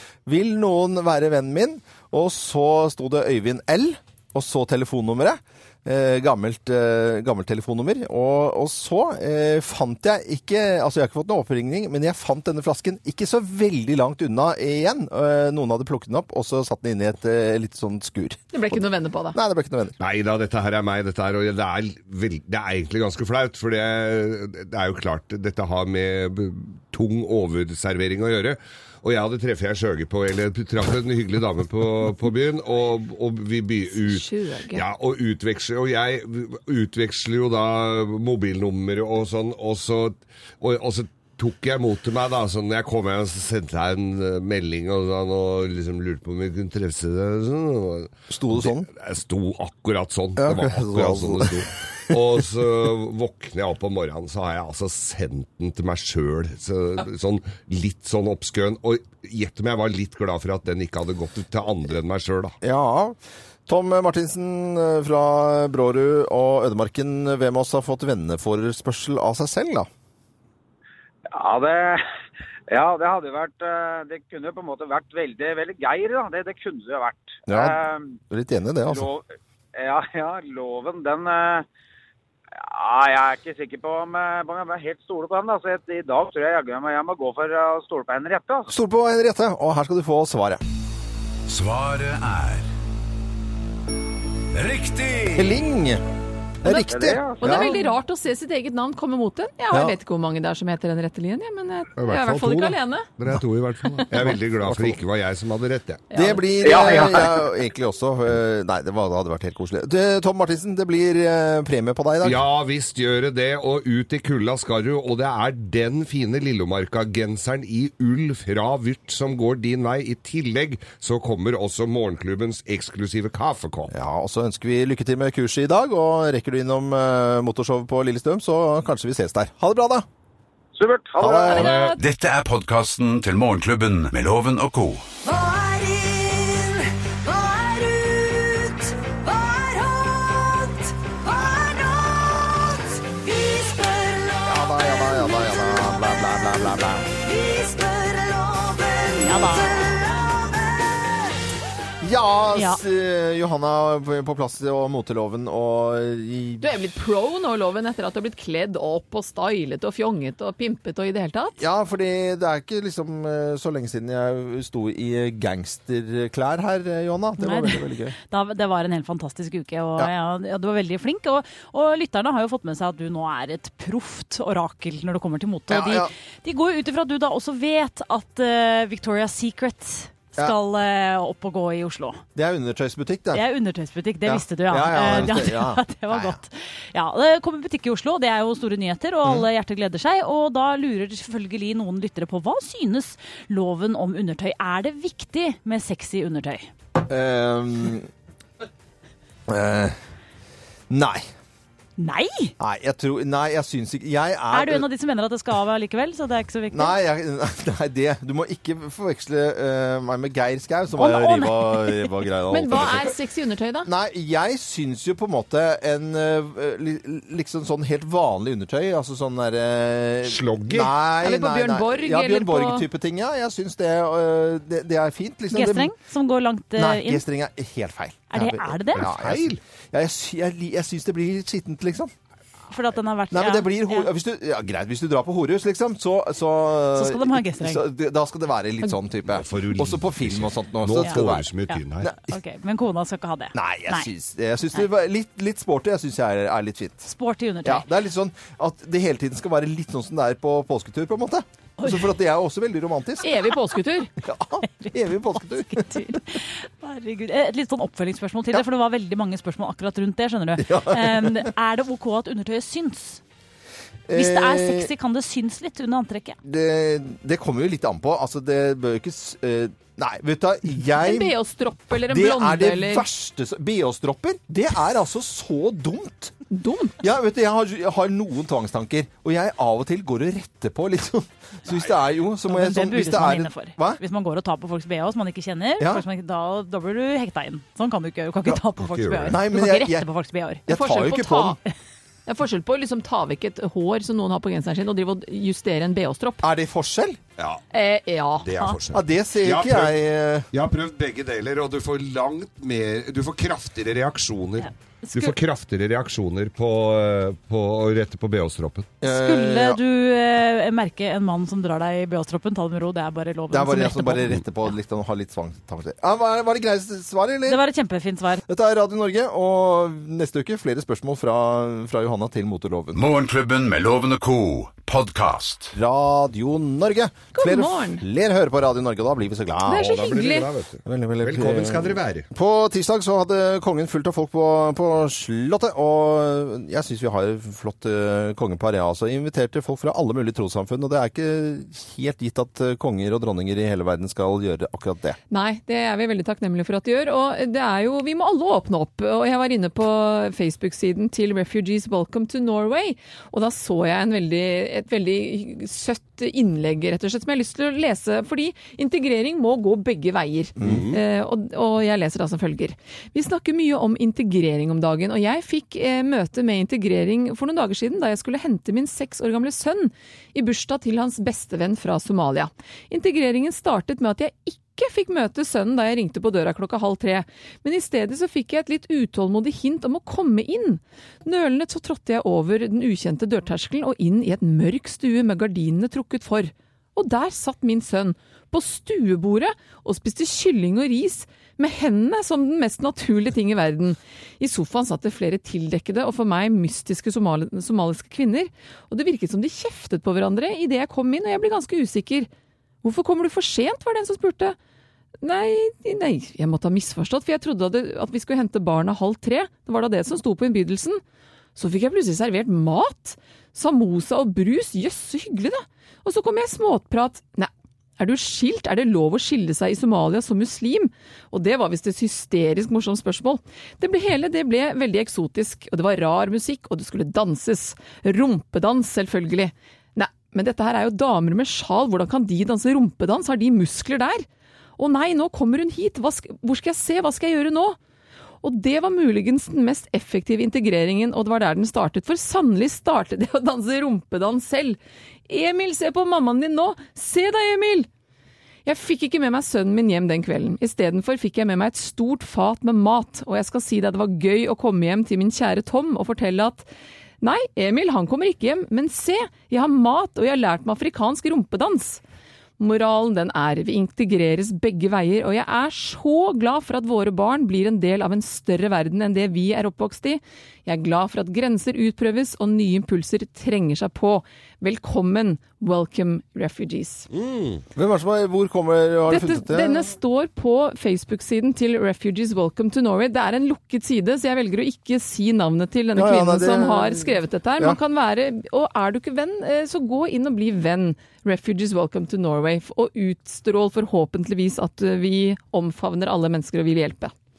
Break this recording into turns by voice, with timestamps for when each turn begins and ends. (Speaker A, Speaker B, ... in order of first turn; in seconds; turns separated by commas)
Speaker A: 0.3-18.8, Speaker B: 18.5-19.4, Speaker A: 19.3-20.0, Speaker C: 20.0-62.5, Speaker B: 33.9-34.8, Speaker A: 48.3-48.9, Speaker A: 50.4-51.6, Speaker A: 62.6-69.9, Speaker D: 71.3-72.0, Speaker D: 72.7-78.2, Speaker A: 77.5-79.1, Speaker D: 78.9-81.7, Speaker D: 82.6-88.8, Speaker A: 88.7-90.6, Speaker E: 91.5-92.7, Speaker E: 94.5-95.6, Speaker A: 95.3-96.0, Speaker A: 96.6-97.8, Speaker D: 96.8-97.7, Speaker B: 97.4-103.1, Speaker A: 99.7-100.0, Speaker C: 102.0-106.1, Speaker A: 104.7-105.0, Speaker F: 106.1-106.7, Speaker A: 106.1-112.4, Speaker C: 112.2-123.9, Speaker A: 123.9-130.1, Speaker D: 130.8-131.6, Speaker A: 131.2-131.8, Speaker B: 131.5-132.0, Speaker C: 131.5-132.0, Speaker E: 132.0-135.1, Speaker G: 136.0-136.5, Speaker A: 144.4-147.2, Speaker G: 147.5-149.1, Speaker F: 149.1-149.9, Speaker A: 152.0-156.7, Speaker F: 152.5-152.8, Speaker B: 156.6-161.6, Speaker A: 161.6-168.2, Speaker F: 167.4-182.2, Speaker A: 175.7-176.1, Speaker A: 182.4-183.5, Speaker F: 183.3-196.7, Speaker A: 184.2-186.4, Speaker A: 197.1-198.1, Speaker A: 199.5-200.0, Speaker A: 200.9-201.3, Speaker F: 202.0-202.5, Speaker A: 202.6-204.9, Speaker F: 204.5-207.0, Speaker A: 206.7-213.1, Speaker F: 210.9-212.2, Speaker B: 212.5-213.9, Speaker A: 213.9-225.9, Speaker C: 220.2-220.9, Speaker B: 221.2-222.9, Speaker F: 225.5-227.2, Speaker A: 226.8-232.1, Speaker F: 228.3-229.1, Speaker C: 229.0-229.6, Speaker F: 232.7-234.1, Speaker A: 233.3-241.5, Speaker F: 236.9-237.8, Speaker C: 239.3-242.2, Speaker F: 241.0-244.1, Speaker A: 243.5-247.1, Speaker F: 247.1-247.9, Speaker A: 247.6-253.4, Speaker F: 251.8-252.1, Speaker B: 253.2-254.1, Speaker A: 254.2-256.2, Speaker F: 254.8-263.2, Speaker A: 260.6-261.5, Speaker A: 264.1-264.9, Speaker F: 264.1-266.4, Speaker A: 266.4-271.3, Speaker B: 271.0-273.1, Speaker A: 272.1-276.4, Speaker B: 276.5-277.0, Speaker A: 277.0-284.0, Speaker F: 282.4-290.6, Speaker A: 285.8-286.1, Speaker C: 288.8-289.4, Speaker A: 289.3-290.1, Speaker A: 290.7-291.6, Speaker B: 290.7-291.6, Speaker B: 292.3-296.5, Speaker A: 296.4-297.2, Speaker B: 297.7-298.5, Speaker C: 298.4-299.9, Speaker A: 298.9-300.5, Speaker C: 300.5-309.0, Speaker F: 304.6-305.4, Speaker A: 309.0-309.8, Speaker F: 309.0-314.5, Speaker A: 313.5-317.6, Speaker F: 317.5-318.4, Speaker A: 318.5-323.1, Speaker E: 322.9-325.7, Speaker A: 325.7-330.1, Speaker B: 327.4-328.0, Speaker B: 329.7-330.5, Speaker C: 329.7-332.3, Speaker A: 330.9-345.2, Speaker B: 345.3-402.3, Speaker C: 360.6-361.0, Speaker B: 402.8-404.6, Speaker B: 405.2-411.0, Speaker B: 411.6-434.2, Speaker B: 434.8-437.8, Speaker B: 438.4-447.9, Speaker B: 448.7-456.7, Speaker B: 457.2-462.0, Speaker B: 462.6-477.1, Speaker C: 477.1-477.6, Speaker A: 477.8-479.8, Speaker B: 479.1-497.1, Speaker A: 485.9-487.8